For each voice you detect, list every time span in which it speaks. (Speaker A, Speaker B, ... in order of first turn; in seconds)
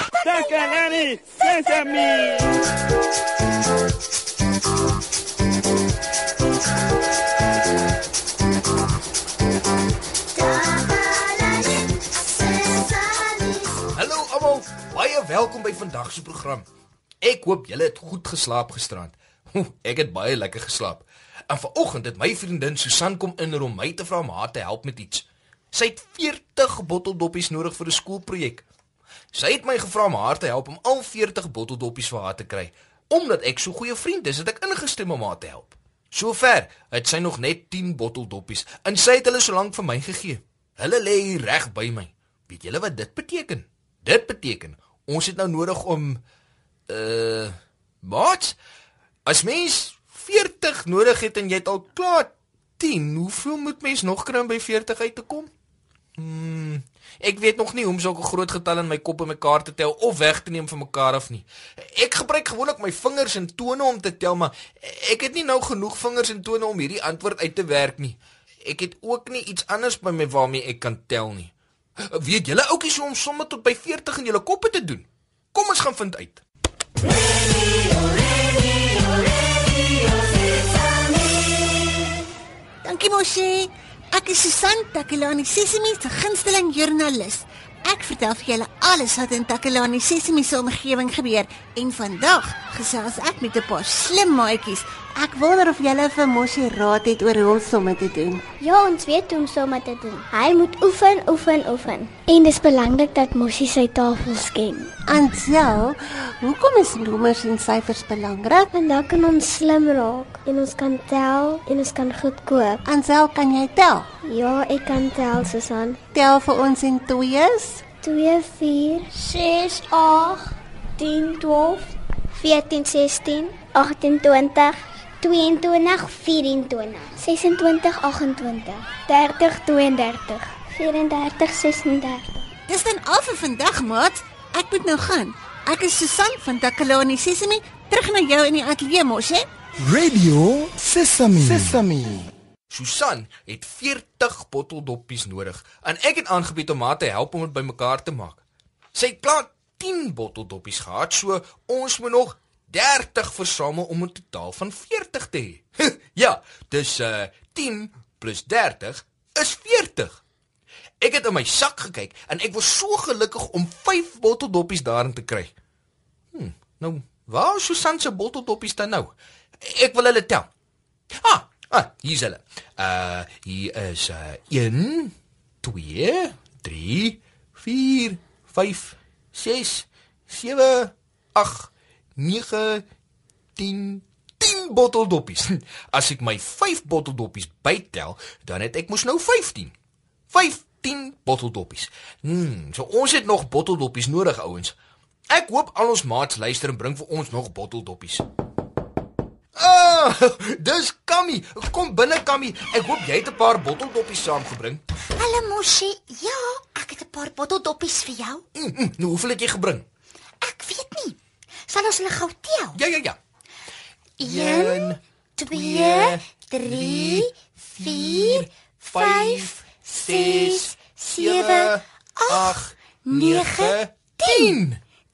Speaker A: 0.2-2.3
Speaker B: 10.4-11.6, 12.5-13.5, 205.2-208.4, 210.4-212.8, 214.2-224.6
Speaker C: 13.9-16.7, 17.2-28.6, 29.3-46.2, 46.9-48.6, 49.3-55.5, 56.2-71.5, 72.1-76.4, 142.7-148.4, 148.9-160.2, 161.0-165.5, 166.3-170.5, 171.2-182.8, 183.6-189.7, 190.3-194.8, 195.3-198.2, 199.6-204.8, 208.6-209.8, 212.8-213.2, 214.2-217.3, 217.8-224.8
Speaker D: 82.8-98.5, 105.0-108.7, 112.8-114.1, 116.1-117.9, 132.7-139.5
Speaker E: 98.6-104.9, 108.7-112.8, 114.2-116.0, 118.0-120.4, 121.0-132.4
Speaker F: 139.8-142.3